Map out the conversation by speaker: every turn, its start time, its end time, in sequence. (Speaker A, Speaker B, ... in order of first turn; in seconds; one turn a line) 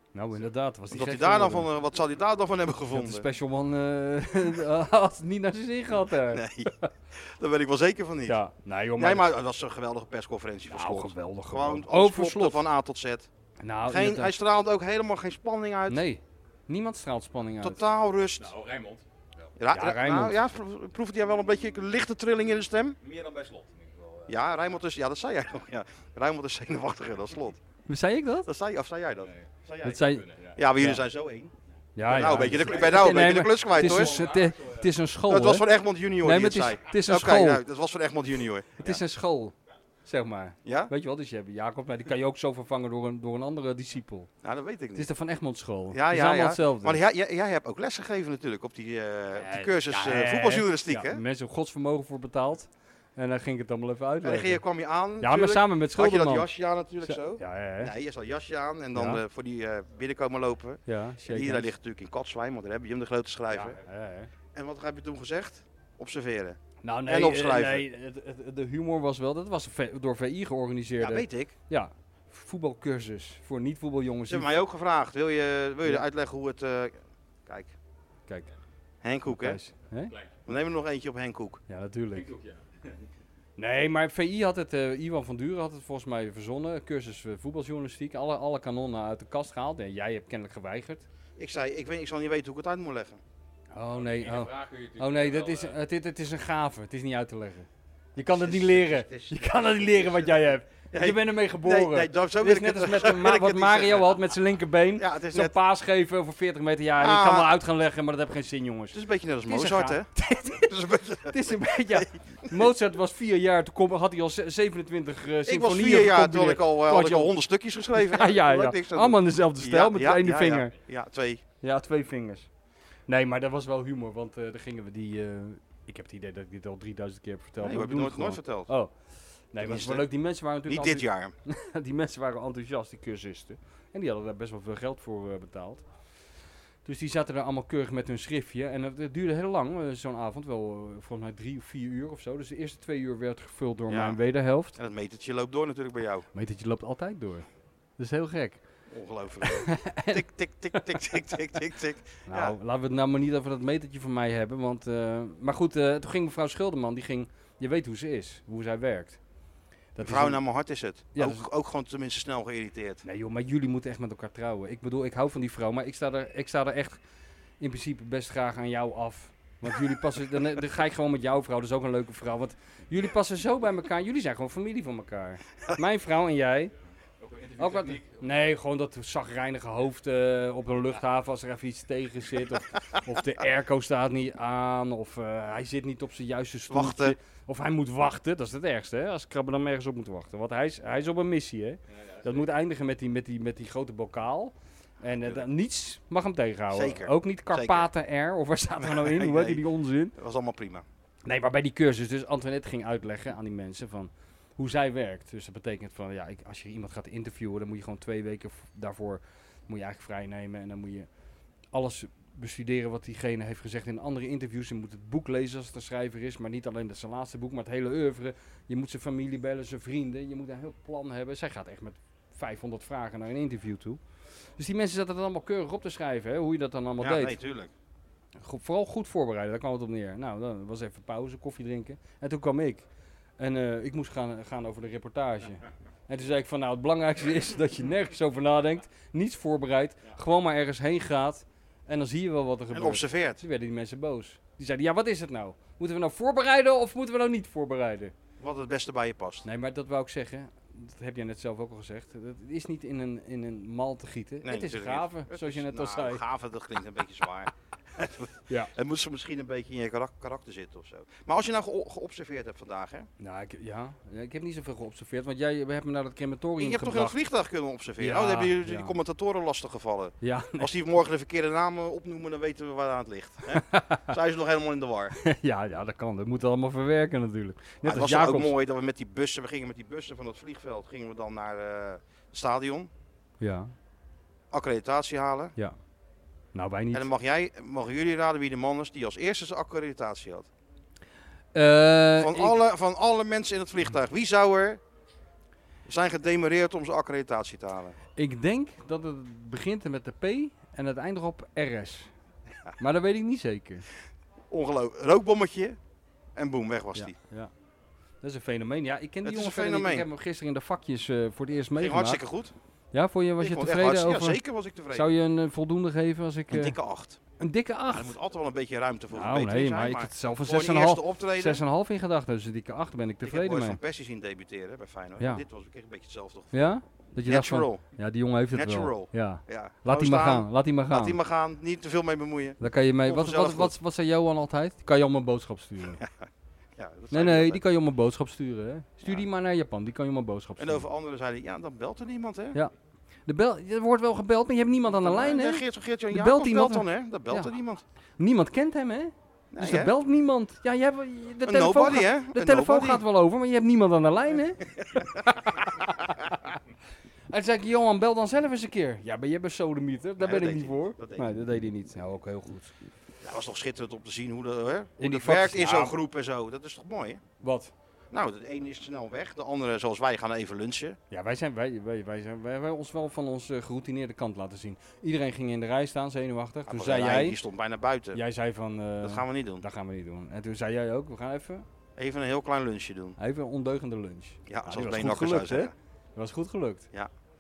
Speaker A: 0.1-1.7
Speaker B: 0.9-3.2
Speaker A: 2.9-6.9
Speaker B: 6.3-8.4
Speaker A: 8.3-9.3
Speaker B: 9.0-13.3
Speaker A: 10.7-12.7
Speaker A: 13.6-14.3
Speaker B: 13.9-16.0
Speaker A: 15.9-17.8
Speaker B: 17.6-18.5
Speaker C: 18.4-19.5
Speaker B: 19.6-23.0
Speaker A: 19.7-20.4
Speaker C: 23.0-24.6
Speaker B: 24.3-27.6
Speaker A: 27.9-28.5
Speaker B: 28.4-30.0
Speaker C: 29.2-30.6
Speaker A: 29.8-30.2
Speaker B: 30.6-31.5
Speaker A: 30.8-31.1
Speaker A: 32.0-35.7
Speaker B: 32.0-34.2
Speaker C: 32.2-34.9
Speaker B: 35.3-39.0
Speaker A: 36.2-37.6
Speaker A: 38.8-39.5
Speaker A: 40.0-44.3
Speaker B: 40.6-40.9
Speaker B: 44.4-45.1
Speaker A: 45.0-47.0
Speaker B: 45.9-51.2
Speaker A: 49.4-54.6
Speaker B: 54.2-63.8
Speaker A: 55.2-56.5
Speaker A: 57.0-57.9
Speaker A: 58.9-59.2
Speaker A: 60.9-61.7
Speaker A: 63.5-64.3
Speaker B: 64.5-67.8
Speaker A: 66.8-74.5
Speaker B: 71.0-71.5
Speaker B: 74.3-77.7
Speaker B: 79.0-79.6
Speaker A: 79.3-80.1
Speaker C: 80.1-80.4
Speaker B: 80.5-81.6
Speaker A: 81.7-82.3
Speaker C: 82.1-83.0
Speaker A: 83.6-91.1
Speaker B: 91.4-93.2
Speaker A: 93.7-117.3
Speaker C: 93.9-95.8
Speaker B: 98.2-100.3
Speaker B: 100.9-104.1
Speaker B: 105.0-105.5
Speaker B: 107.0-107.5
Speaker B: 108.9-110.1
Speaker B: 110.7-111.3
Speaker B: 115.5-121.4
Speaker A: 117.9-120.8
Speaker A: 121.6-122.5
Speaker A: 123.1-128.9
Speaker B: 127.6-128.7
Speaker A: 129.5-135.8
Speaker B: 129.6-130.1
Speaker B: 130.7-131.3
Speaker A: 136.8-144.8
Speaker B: 143.9-144.2
Speaker B: 144.8-146.3
Speaker A: 146.3-147.5
Speaker A: 148.0-148.6
Speaker B: 148.9-152.6
Speaker A: 149.4-150.2
Speaker A: 152.3-159.2
Speaker A: 160.0-160.4
Speaker B: 160.0-163.0
Speaker A: 161.1-161.4
Speaker A: 163.1-167.0
Speaker A: 167.6-176.7
Speaker C: 177.2-178.2
Speaker A: 177.6-200.2
Speaker B: 186.7-187.2
Speaker C: 191.9-192.4
Speaker B: 196.7-197.9
Speaker B: 198.8-199.6
Speaker B: 200.2-200.8
Speaker A: 201.2-211.1
Speaker A: 211.7-224.0
Speaker A: 224.6-227.4
Speaker B: 227.0-227.7
Speaker A: 228.4-232.8
Speaker A: 233.4-248.1
Speaker B: 242.7-243.4
Speaker B: 248.4-249.4
Speaker A: 249.4-256.2
Speaker B: 254.4-263.1
Speaker A: 263.2-267.2
Speaker B: 266.6-275.1
Speaker A: 268.0-268.9
Speaker A: 270.2-270.7
Speaker A: 273.7-274.0
Speaker A: 275.2-278.5
Speaker B: 277.8-282.9
Speaker A: 283.4-283.7
Speaker B: 284.5-285.5
Speaker A: 286.5-287.1
Speaker B: 286.9-290.5
Speaker A: 291.5-292.6
Speaker B: 292.2-294.8
Speaker B: 295.9-298.0
Speaker A: 298.2-302.1
Speaker A: 302.8-303.9
Speaker B: 304.5-305.8
Speaker B: 306.4-307.1
Speaker A: 306.9-307.5
Speaker A: 308.2-312.2
Speaker B: 309.2-310.1
Speaker B: 311.8-312.5
Speaker A: 312.9-316.8
Speaker B: 313.4-315.1
Speaker B: 316.5-317.2
Speaker A: 317.4-318.1
Speaker B: 317.9-321.6
Speaker A: 319.1-323.8
Speaker B: 323.2-326.6
Speaker A: 325.2-325.4
Speaker A: 326.5-331.2
Speaker B: 327.3-327.8
Speaker B: 328.5-333.7
Speaker A: 332.6-336.0
Speaker B: 336.8-337.6
Speaker A: 337.1-340.9
Speaker B: 340.6-342.6
Speaker A: 343.3-347.5
Speaker B: 344.9-347.8
Speaker A: 348.2-354.6
Speaker B: 349.5-349.9
Speaker B: 351.5-353.0
Speaker B: 354.8-355.4
Speaker A: 357.3-362.7
Speaker B: 360.2-361.3
Speaker B: 363.2-367.2
Speaker A: 365.0-366.0
Speaker A: 367.4-367.7
Speaker B: 368.1-371.0
Speaker A: 371.1-377.4
Speaker B: 376.7-378.2
Speaker A: 378.1-381.6
Speaker B: 379.0-379.6
Speaker B: 382.0-383.2
Speaker A: 383.2-386.9
Speaker B: 384.5-385.7